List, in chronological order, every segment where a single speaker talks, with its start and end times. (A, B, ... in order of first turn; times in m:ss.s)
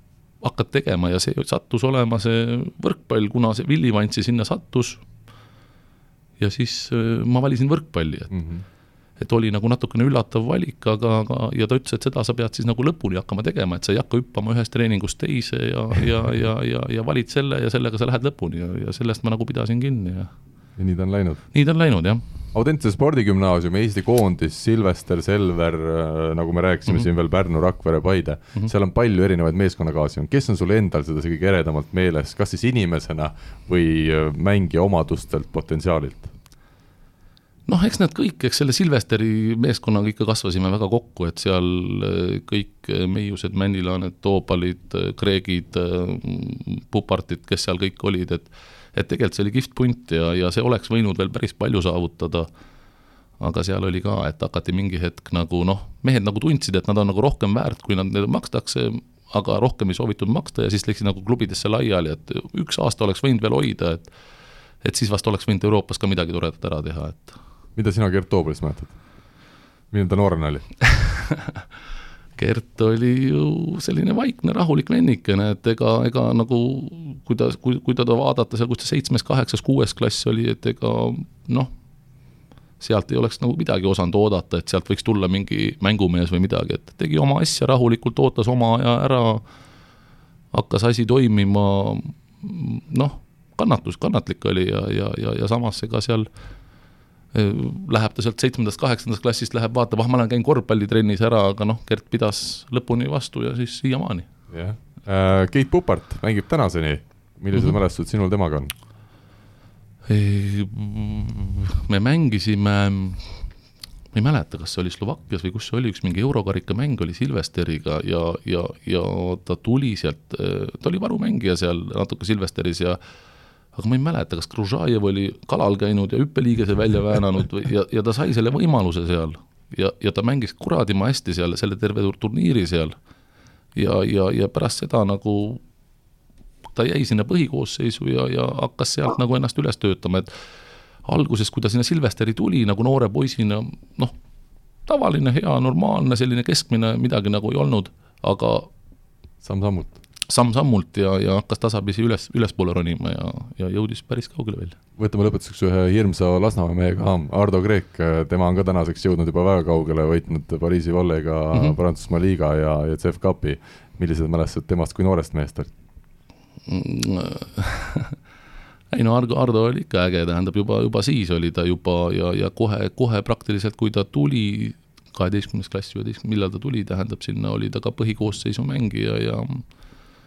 0:00.4-0:05.0 A
0:06.4-0:08.3 A
0:08.3-0:08.6 B
0:09.2-0:20.3 A
0:20.8-0:21.4 B
0:21.5-0:22.2 A
0:22.5-0:36.3 B
0:37.7-0:52.5 A
0:53.4-1:04.1 A
1:04.8-1:07.4 A
1:07.8-1:08.9 B
1:09.9-1:10.6 B
1:10.9-1:11.6 A
1:12.4-1:21.7 A
1:22.8-1:29.4 A
1:30.5-1:36.3 A
1:37.3-1:44.3 A
1:44.5-1:48.7 B
1:50.1-1:53.4 A
1:54.1-2:03.0 A
2:03.7-2:12.9 A
2:13.8-2:15.6 A
2:16.7-2:20.3 A
2:21.0-2:24.1 A
2:24.9-2:28.7 A
2:29.4-2:30.0 B
2:30.3-2:34.8 A
2:35.0-2:45.7 B
2:46.7-2:48.2 A
2:48.9-2:59.6 A